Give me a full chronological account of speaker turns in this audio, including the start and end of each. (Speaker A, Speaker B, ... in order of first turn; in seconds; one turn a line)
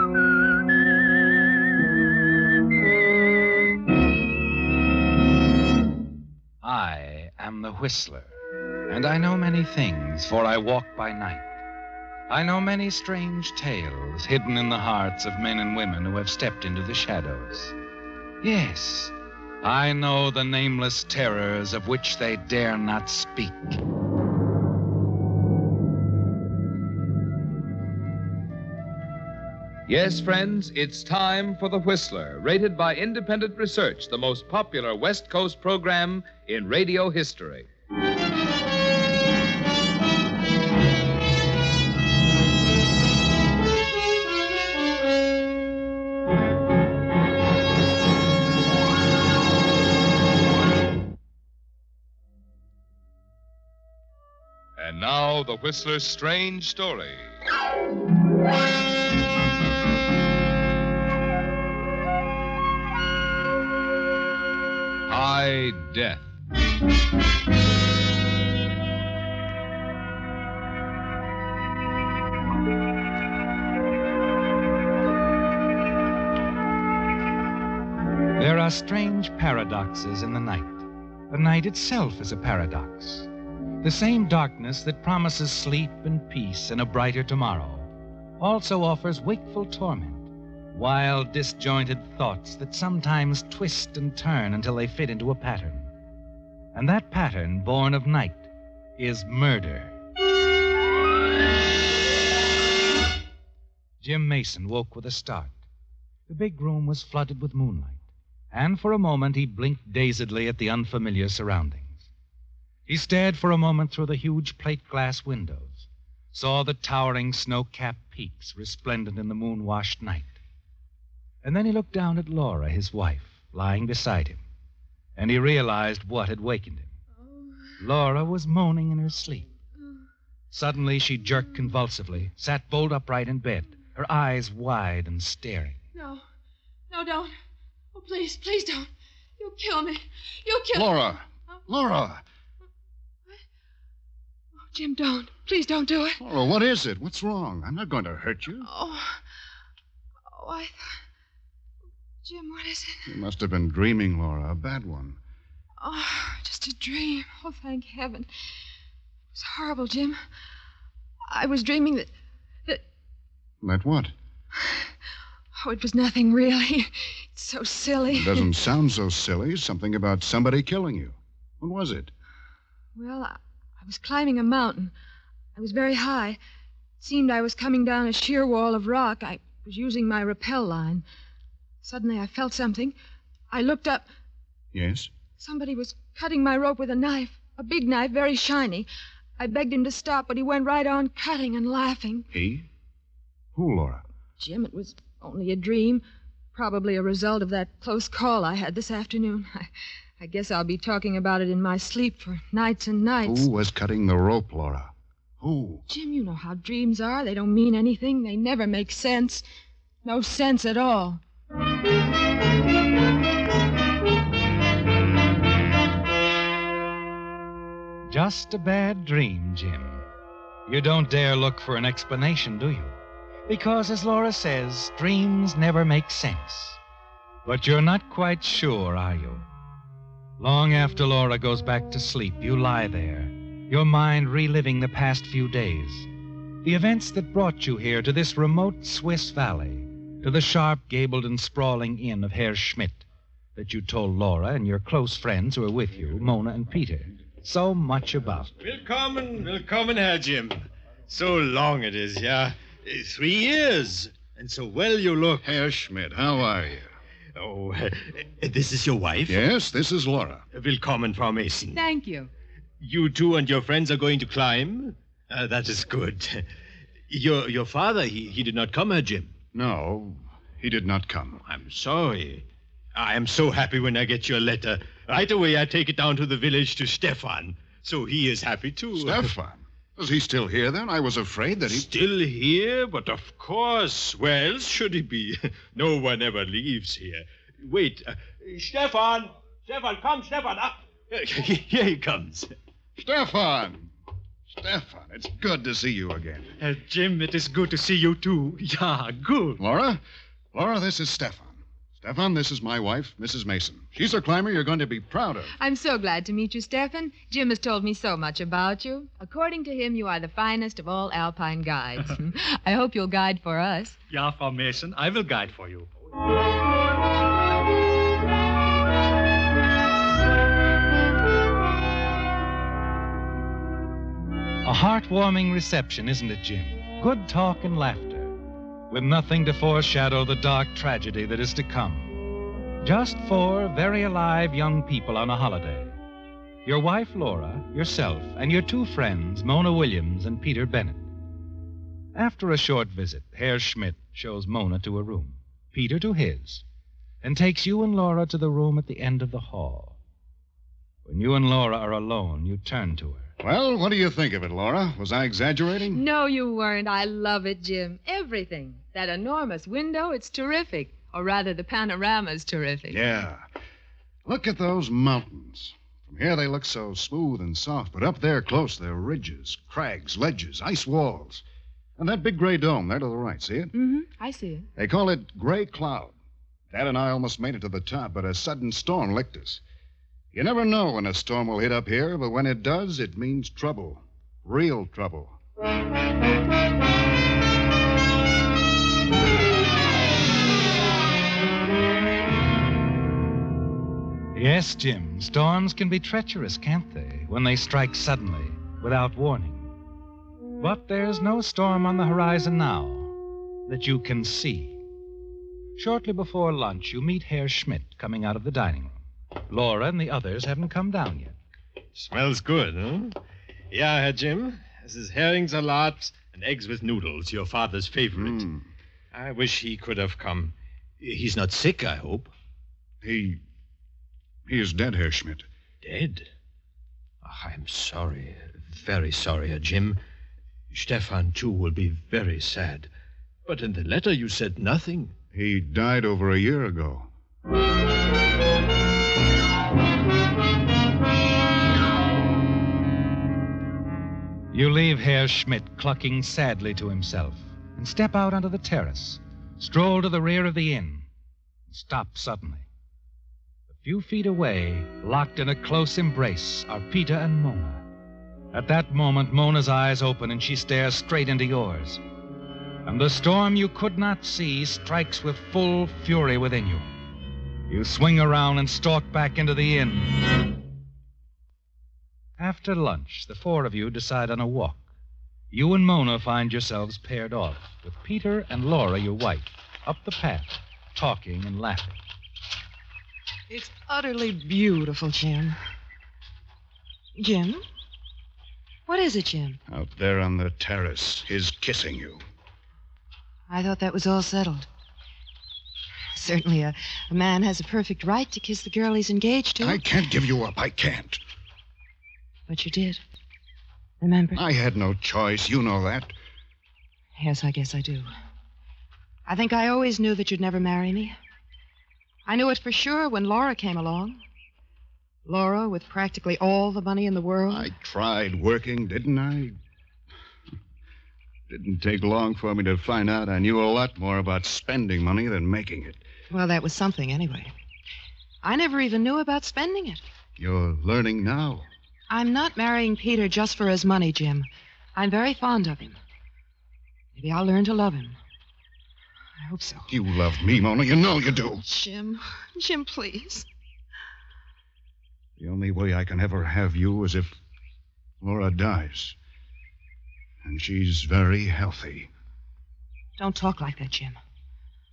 Speaker A: 6.6-8.3
Speaker A: 8.9-11.5
Speaker A: 12.3-17.8
Speaker A: 18.4-23.8
Speaker B: 29.9-37.7
Speaker B: 54.8-57.4
Speaker B: 65.1-66.3
Speaker A: 78.4-83.3
Speaker A: 83.8-87.9
Speaker A: 88.4-95.9
Speaker A: 96.7-100.0
Speaker A: 104.0-105.6
Speaker A: 106.3-112.0
Speaker A: 112.9-120.3
Speaker A: 121.4-124.4
Speaker A: 125.2-127.0
Speaker A: 127.8-129.5
Speaker A: 130.5-135.8
Speaker C: 135.9-136.2
Speaker C: 136.9-137.3
Speaker C: 137.9-141.0
Speaker D: 140.7-142.2
Speaker C: 144.7-146.2
Speaker D: 146.2-148.7
Speaker C: 148.6-149.2
Speaker C: 150.3-151.0
Speaker C: 152.2-153.2
Speaker D: 153.1-155.2
Speaker C: 155.8-158.3
Speaker C: 159.3-160.2
Speaker C: 161.3-162.1
Speaker D: 163.6-164.1
Speaker C: 164.6-164.9
Speaker C: 165.6-168.5
Speaker D: 168.1-172.1
Speaker C: 172.9-174.9
Speaker C: 175.6-176.4
Speaker C: 177.0-181.0
Speaker C: 181.8-183.0
Speaker C: 183.5-184.1
Speaker D: 184.7-185.1
Speaker C: 185.4-192.3
Speaker D: 192.3-192.7
Speaker D: 193.5-194.0
Speaker C: 194.4-196.0
Speaker C: 196.5-203.5
Speaker D: 203.2-205.8
Speaker C: 205.9-209.4
Speaker C: 210.0-211.2
Speaker A: 218.1-220.0
Speaker A: 220.7-226.8
Speaker A: 227.4-229.4
Speaker A: 230.4-236.1
Speaker A: 236.6-248.5
Speaker E: 248.6-255.5
Speaker D: 255.4-256.9
Speaker E: 257.4-259.4
Speaker D: 259.3-260.4
Speaker E: 260.5-261.8
Speaker C: 261.8-262.3
Speaker E: 262.8-266.5
Speaker E: 267.1-269.3
Speaker D: 269.5-271.4
Speaker E: 271.4-279.3
Speaker D: 278.9-281.9
Speaker E: 281.6-292.6
Speaker D: 293.0-293.9
Speaker D: 294.5-296.5
Speaker F: 296.6-299.6
Speaker D: 299.6-300.0
Speaker D: 300.5-305.5
Speaker C: 305.6-314.0
Speaker F: 314.1-315.9
Speaker A: 324.6-328.4
Speaker A: 328.9-332.1
Speaker A: 332.8-336.0
Speaker A: 336.6-341.1
Speaker A: 342.1-346.6
Speaker A: 347.2-350.0
Speaker A: 351.0-353.3
Speaker D: 353.4-356.0
Speaker C: 355.9-363.0
Speaker D: 362.9-363.5
Speaker D: 364.3-371.4
Speaker D: 372.0-373.7
Speaker C: 373.7-374.7
Speaker D: 374.8-376.1
Speaker D: 376.7-379.6
Speaker D: 380.3-385.4
Speaker A: 394.3-399.7
Speaker A: 400.6-403.1
Speaker A: 403.7-404.8
Speaker A: 405.8-411.4
Speaker E: 411.9-413.2
Speaker E: 413.7-418.5
Speaker D: 418.2-418.7
Speaker E: 419.1-422.3
Speaker D: 423.0-423.4
Speaker D: 424.5-425.5
Speaker E: 425.8-426.3
Speaker E: 427.2-430.0
Speaker E: 430.7-432.9
Speaker E: 433.4-435.1
Speaker D: 435.3-437.1
Speaker A: 444.5-451.1
Speaker A: 451.7-452.7
Speaker A: 453.7-457.8
Speaker A: 458.5-462.0
Speaker A: 462.9-466.9
Speaker A: 467.7-470.2
Speaker A: 472.4-474.9
Speaker A: 475.5-482.0
Speaker G: 483.5-485.6
Speaker G: 487.2-487.6
Speaker G: 488.9-489.6
Speaker D: 489.7-492.2
Speaker G: 493.5-494.7
Speaker G: 496.1-499.8
Speaker D: 499.6-501.2
Speaker G: 502.5-503.0
Speaker G: 504.0-504.4
Speaker D: 504.4-506.1
Speaker G: 507.1-508.1
Speaker G: 509.3-511.2
Speaker G: 512.3-514.2
Speaker G: 515.3-517.7
Speaker D: 517.5-519.6
Speaker D: 521.5-526.1
Speaker G: 526.3-527.5
Speaker G: 528.4-530.0
Speaker D: 530.4-531.7
Speaker G: 532.1-536.0
Speaker G: 537.1-538.2
Speaker G: 539.4-539.9
Speaker D: 539.9-541.6
Speaker G: 541.6-543.5
Speaker D: 545.4-547.4
Speaker D: 548.2-549.2
Speaker D: 550.4-552.1
Speaker G: 553.2-554.2